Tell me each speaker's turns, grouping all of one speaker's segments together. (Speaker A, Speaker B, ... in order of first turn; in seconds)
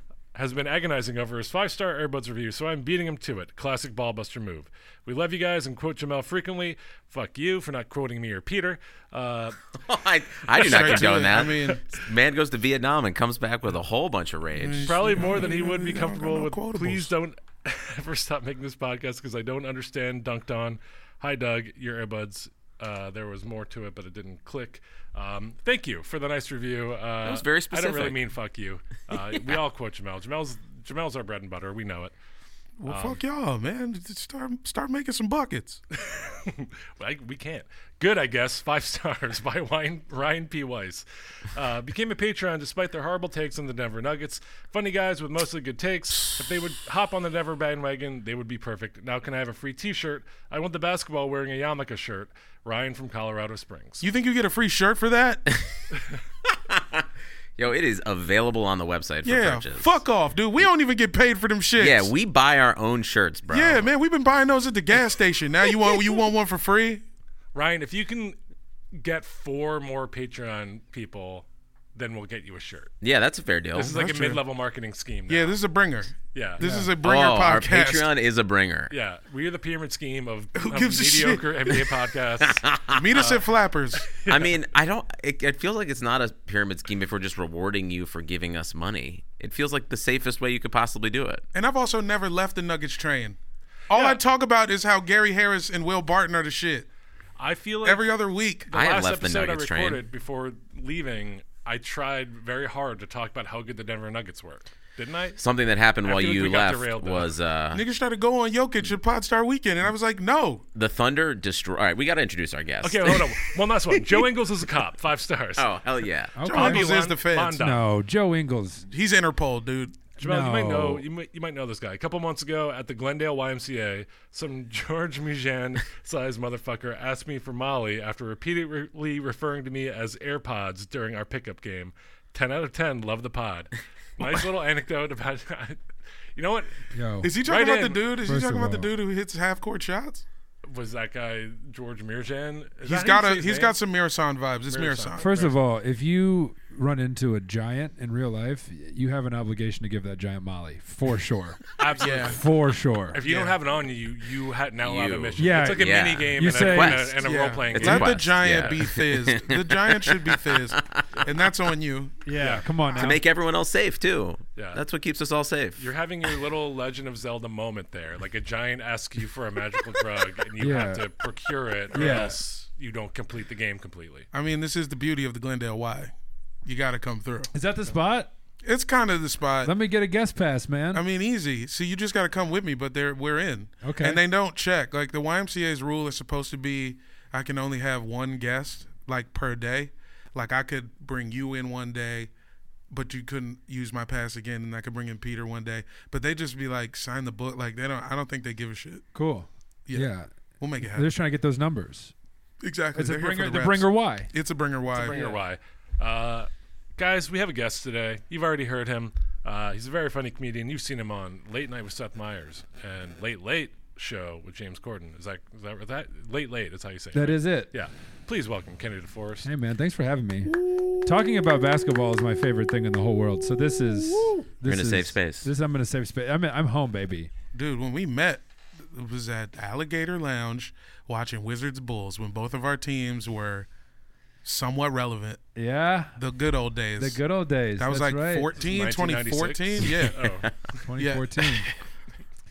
Speaker A: 0.3-9.6, 10.6-12.0, 14.8-32.1, 32.9-33.2, 36.0-54.1, 67.5-68.4, 68.9-72.9, 73.8-75.6, 76.3-76.6, 78.9-84.5, 93.9-94.2, 97.4-98.1, 98.7-105.4, 106.0-107.3, 112.8-115.7, 116.4-117.9, 120.2-135.8, 136.3-138.1, 140.7-143.8, 144.7-145.5, 151.8-152.5, 153.1-158.8, 162.4-162.7, 164.6-164.8, 165.8-174.3, 204.9-219.5, 238.6-240.5
Speaker B: 9.8-15.0, 27.2-28.2, 56.5-57.0, 57.6-60.0, 61.8-63.9, 73.0-74.0, 77.0-78.9, 82.4-83.0, 84.3-91.5, 98.7-100.0, 105.4-107.8, 110.8-114.2, 115.6-116.4, 154.8-161.1, 162.9-165.9, 224.7-225.5
Speaker C: 10.6-11.8, 14.6-17.1, 32.8-35.8, 54.0-55.5, 59.2-62.1, 63.5-67.0, 73.8-74.4, 75.3-78.1, 80.6-81.8, 82.9-84.1, 91.5-93.4, 93.9-96.9, 97.8-98.7, 107.7-110.7, 116.4-117.6, 118.9-120.1, 137.2-140.2, 142.8-145.3, 152.0-152.4, 153.2-153.6, 157.2-162.2, 172.0-172.3, 174.3-176.1, 176.7-177.5, 178.7-179.7, 180.9-192.3, 192.9-199.1, 199.9-201.1, 202.6-205.3, 220.5-221.1, 224.1-224.4, 227.5-233.7, 234.4-235.4, 236.2-237.2, 237.8-240.4, 241.0-241.7
Speaker D: 76.6-76.9, 116.4-116.9, 117.6-118.9, 120.2-121.1, 136.9-137.3, 138.2-138.9, 145.2-153.2, 155.4-157.2, 162.2-163.2, 170.6-171.1, 171.9-172.4, 177.5-178.3, 179.6-181.0, 183.8-184.2, 199.1-202.1, 202.9-204.3, 205.1-205.4, 217.1-217.7, 219.4-227.3, 235.6-236.2, 237.0-238.5, 240.8-241.7